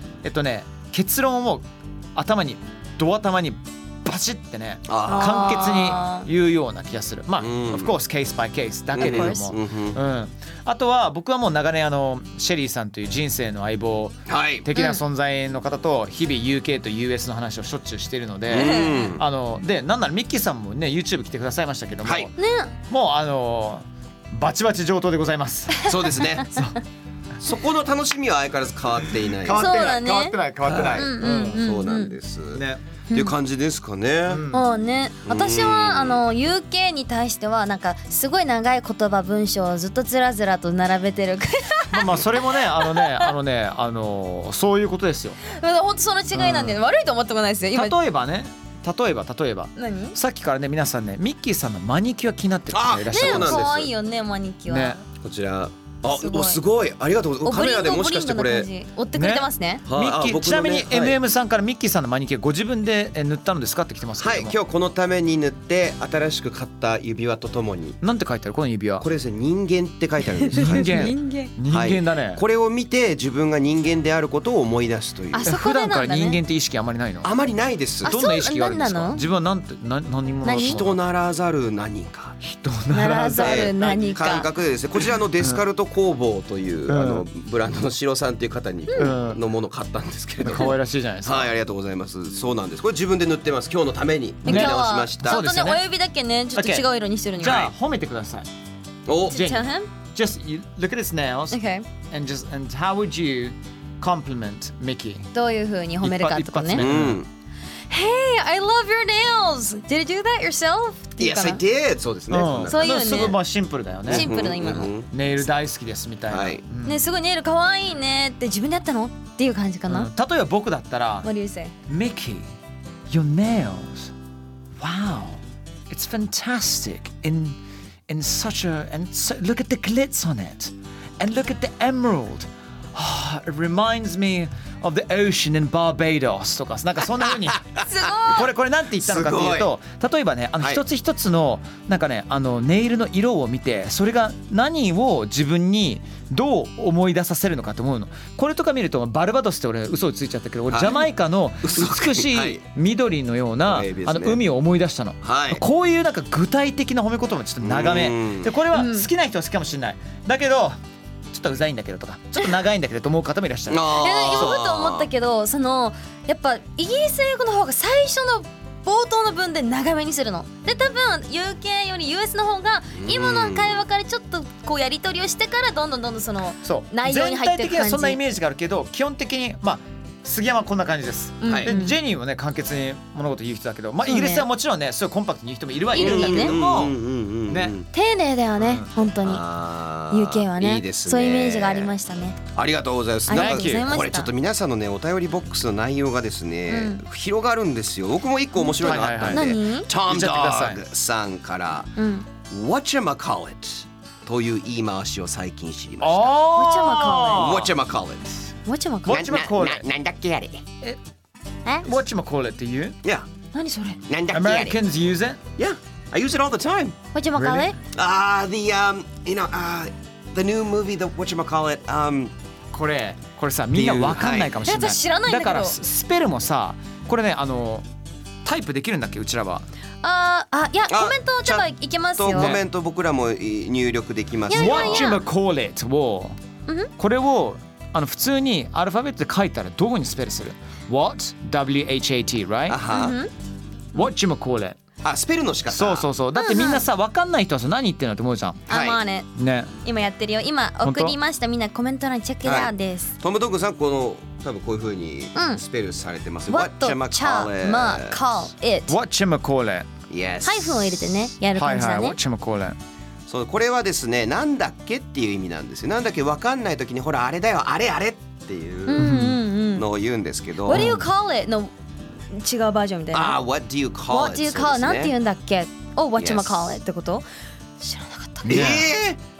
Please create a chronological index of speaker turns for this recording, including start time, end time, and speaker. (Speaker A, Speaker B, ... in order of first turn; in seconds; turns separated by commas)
Speaker A: 0.2-22.3, Speaker B: 4.9-5.5, Speaker C: 5.1-6.3, Speaker B: 7.4-7.9, Speaker B: 8.9-10.0, Speaker C: 9.0-9.5, Speaker B: 14.3-14.7, Speaker C: 14.7-15.0, Speaker B: 18.5-19.2, Speaker C: 18.5-19.2, Speaker B: 22.1-22.3, Speaker C: 22.4-22.7, Speaker A: 22.9-26.8, Speaker B: 25.8-26.7, Speaker B: 27.4-29.9, Speaker A: 29.4-31.6, Speaker C: 29.5-32.1, Speaker B: 30.7-34.5, Speaker A: 32.5-32.8, Speaker C: 33.1-33.4, Speaker A: 34.3-34.7, Speaker C: 34.5-43.3, Speaker B: 35.2-36.2, Speaker A: 41.9-45.4, Speaker C: 45.5-48.0, Speaker A: 46.3-46.8, Speaker A: 47.7-53.7, Speaker C: 49.8-50.2, Speaker B: 52.7-53.9, Speaker C: 53.1-55.0, Speaker A: 54.7-55.0, Speaker B: 55.2-58.7, Speaker C: 56.1-56.6, Speaker C: 57.4-59.9, Speaker A: 59.1-64.6, Speaker B: 59.9-61.2, Speaker B: 64.2-68.0, Speaker A: 68.0-69.1, Speaker B: 69.0-71.2, Speaker C: 70.5-71.5, Speaker A: 70.5-72.4, Speaker B: 71.7-75.5, Speaker C: 75.3-76.4, Speaker A: 75.4-77.3, Speaker B: 77.2-78.2, Speaker A: 78.0-81.0, Speaker C: 78.0-79.2, Speaker C: 80.4-80.8, Speaker B: 80.6-82.4, Speaker A: 82.4-84.0, Speaker C: 82.9-84.5, Speaker B: 83.4-90.7, Speaker A: 85.4-85.6, Speaker A: 86.9-87.3, Speaker C: 88.9-89.2, Speaker A: 89.0-89.4, Speaker A: 90.4-91.5, Speaker B: 91.2-95.5, Speaker A: 94.5-95.8, Speaker C: 94.5-97.7, Speaker A: 96.5-96.9, Speaker A: 97.4-98.5, Speaker B: 99.1-99.5, Speaker C: 99.3-99.9, Speaker A: 99.3-105.3, Speaker C: 101.5-101.9, Speaker C: 105.3-106.9, Speaker A: 106.0-107.2, Speaker B: 106.8-107.3, Speaker C: 107.9-111.6, Speaker B: 111.2-113.3, Speaker A: 112.3-117.1, Speaker C: 112.7-113.4, Speaker C: 114.1-114.9, Speaker B: 114.1-115.1, Speaker B: 116.3-116.6, Speaker C: 116.8-120.1, Speaker A: 119.9-121.3, Speaker C: 121.2-121.7, Speaker A: 121.9-122.5, Speaker A: 123.1-124.1, Speaker A: 124.8-160.8, Speaker C: 137.9-138.5, Speaker B: 139.0-139.7, Speaker B: 150.7-151.1, Speaker B: 151.6-152.6, Speaker B: 153.7-154.4, Speaker B: 155.2-155.6, Speaker B: 157.6-158.5, Speaker C: 158.7-159.1, Speaker A: 161.3-164.6, Speaker B: 163.7-165.1, Speaker C: 163.9-178.2, Speaker B: 172.9-173.8, Speaker A: 176.6-186.9, Speaker C: 181.4-182.0, Speaker B: 181.5-181.7, Speaker C: 184.1-184.5, Speaker C: 185.9-186.6, Speaker B: 186.0-187.9, Speaker A: 187.5-187.8, Speaker C: 187.9-189.4, Speaker A: 188.6-188.9, Speaker B: 189.2-191.9, Speaker C: 190.1-192.4, Speaker B: 192.5-201.9, Speaker C: 193.3-194.3, Speaker A: 193.3-193.9, Speaker C: 196.7-197.0, Speaker C: 198.6-199.9, Speaker A: 198.8-200.8, Speaker C: 202.0-202.3, Speaker B: 202.4-206.3, Speaker A: 206.0-207.7, Speaker C: 206.5-207.6, Speaker B: 207.3-208.5, Speaker C: 208.7-209.2, Speaker A: 209.1-209.9, Speaker B: 209.1-210.7, Speaker A: 211.8-213.0, Speaker C: 213.5-214.0, Speaker B: 214.1-214.8, Speaker A: 214.3-215.4, Speaker B: 215.6-217.0, Speaker C: 217.1-217.8, Speaker A: 217.4-217.7, Speaker B: 217.9-222.3, Speaker A: 222.7-227.9, Speaker B: 223.7-224.6, Speaker C: 224.7-225.8, Speaker A: 228.4-229.7, Speaker C: 230.0-232.6, Speaker B: 230.9-235.1, Speaker A: 232.3-232.6, Speaker C: 234.5-235.2, Speaker A: 234.5-236.4, Speaker A: 237.0-242.8, Speaker B: 242.7-243.2, Speaker C: 242.9-243.3, Speaker A: 243.9-244.8, Speaker B: 245.0-246.1, Speaker A: 245.7-248.7, Speaker C: 246.3-246.8, Speaker C: 248.7-249.3, Speaker B: 248.7-249.0, Speaker A: 249.3-249.7, Speaker C: 249.8-253.2, Speaker A: 250.8-251.2, Speaker B: 252.4-258.2, Speaker C: 255.4-255.6, Speaker C: 256.5-259.0, Speaker A: 258.9-259.9, Speaker B: 260.1-261.3, Speaker C: 260.4-262.2, Speaker A: 261.6-262.8, Speaker B: 263.3-269.1, Speaker C: 268.9-269.9, Speaker A: 269.0-269.4, Speaker B: 269.7-271.0, Speaker C: 270.6-273.4, Speaker A: 270.7-271.1, Speaker B: 273.1-275.1, Speaker C: 274.1-277.3, Speaker B: 276.2-276.8, Speaker C: 277.8-278.8, Speaker A: 278.4-278.9, Speaker B: 278.5-279.2